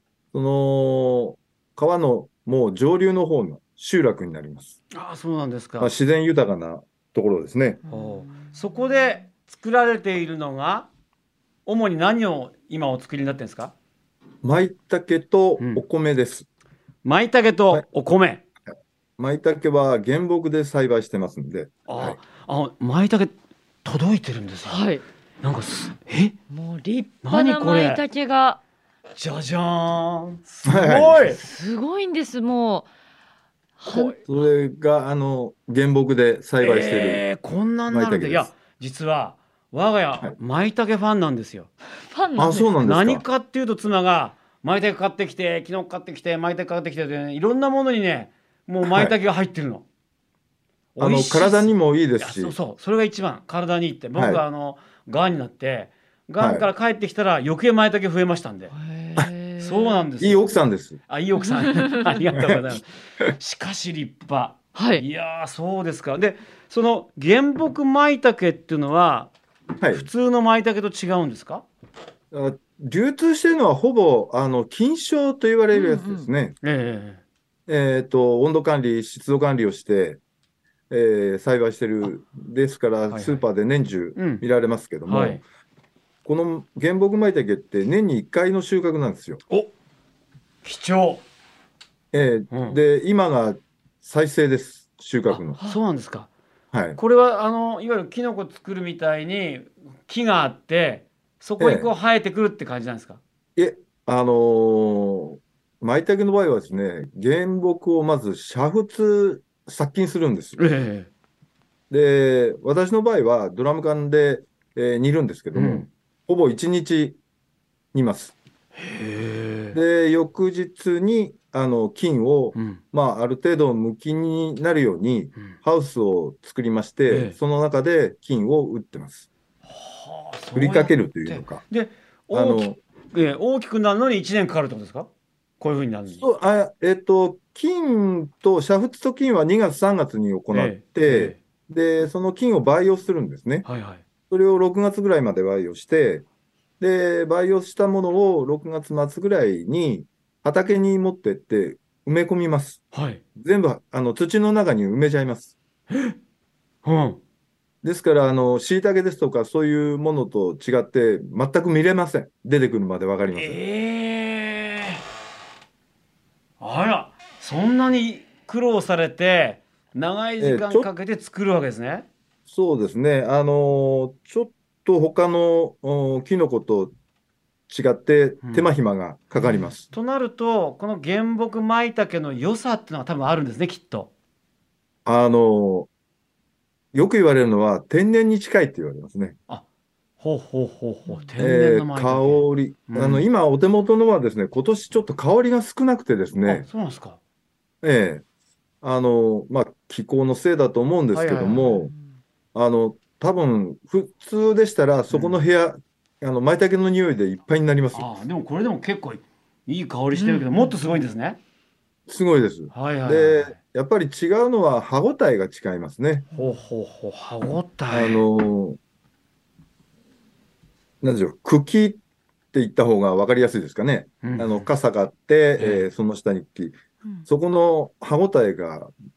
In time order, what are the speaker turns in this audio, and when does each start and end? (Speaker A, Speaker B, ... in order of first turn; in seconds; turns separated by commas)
Speaker A: 0.3-4.8, Speaker B: 4.9-5.9, Speaker A: 5.8-7.8, Speaker B: 7.9-10.9, Speaker B: 11.7-13.7, Speaker A: 14.4-16.4, Speaker B: 17.0-18.4, Speaker A: 19.2-22.2, Speaker B: 21.9-24.9, Speaker C: 24.6-25.0, Speaker B: 25.4-26.3, Speaker C: 26.5-28.6, Speaker B: 27.2-28.0, Speaker B: 29.1-31.4, Speaker A: 30.6-31.4, Speaker C: 31.4-32.9, Speaker C: 33.8-34.2, Speaker A: 33.9-37.2, Speaker B: 36.6-41.7, Speaker A: 37.9-38.5, Speaker C: 42.1-42.7, Speaker A: 42.4-43.2, Speaker B: 42.8-49.8, Speaker A: 48.8-49.1, Speaker B: 51.0-58.7, Speaker A: 51.0-52.5, Speaker A: 54.1-54.4, Speaker A: 56.4-56.7, Speaker C: 58.7-60.0, Speaker B: 59.6-60.5, Speaker A: 60.2-61.0, Speaker B: 61.1-69.3, Speaker C: 61.4-62.2, Speaker A: 62.3-62.6, Speaker C: 64.7-65.0, Speaker A: 69.8-70.0, Speaker B: 69.9-71.6, Speaker A: 72.3-76.5, Speaker C: 75.7-76.3, Speaker B: 76.6-77.2, Speaker A: 77.7-80.2, Speaker A: 80.9-85.4, Speaker B: 83.1-83.4, Speaker B: 84.2-84.4, Speaker B: 85.0-85.4, Speaker A: 86.2-89.4, Speaker B: 90.6-91.2, Speaker A: 92.1-95.6, Speaker B: 92.5-92.8, Speaker B: 95.3-96.3, Speaker A: 96.7-97.0, Speaker B: 97.0-103.2, Speaker A: 101.6-101.9, Speaker A: 103.5-110.6, Speaker B: 110.6-111.1, Speaker A: 111.9-117.2, Speaker B: 115.5-115.9, Speaker A: 117.9-118.3, Speaker B: 118.8-119.8, Speaker A: 119.7-129.2, Speaker B: 122.5-122.8, Speaker B: 127.1-127.3, Speaker B: 129.7-135.1, Speaker A: 130.5-131.6, Speaker A: 132.3-132.8, Speaker B: 135.6-136.2, Speaker A: 136.1-143.7, Speaker B: 140.5-141.4, Speaker B: 143.6-144.0, Speaker A: 144.3-146.2, Speaker A: 146.8-152.8, Speaker B: 152.9-153.2, Speaker A: 153.4-155.5, Speaker B: 155.9-156.2, Speaker B: 156.8-157.2, Speaker A: 157.8-163.6, Speaker B: 163.3-165.0, Speaker B: 166.6-172.1, Speaker A: 170.4-170.9, Speaker A: 172.5-176.9, Speaker A: 177.7-179.9, Speaker B: 178.4-178.7, Speaker B: 179.9-184.1, Speaker A: 185.1-185.9, Speaker A: 186.9-189.3, Speaker B: 190.2-193.3, Speaker A: 191.4-196.6, Speaker B: 196.4-197.2, Speaker A: 197.8-198.2, Speaker A: 198.8-201.9, Speaker B: 201.1-201.8, Speaker A: 202.5-208.1, Speaker B: 205.1-205.4, Speaker B: 207.9-211.4, Speaker C: 210.1-210.7, Speaker A: 212.1-216.3, Speaker B: 212.7-213.5, Speaker B: 216.3-218.2, Speaker A: 217.9-218.8, Speaker A: 221.0-222.0, Speaker A: 222.5-226.8, Speaker B: 224.2-224.7, Speaker B: 225.6-225.9, Speaker A: 227.3-228.9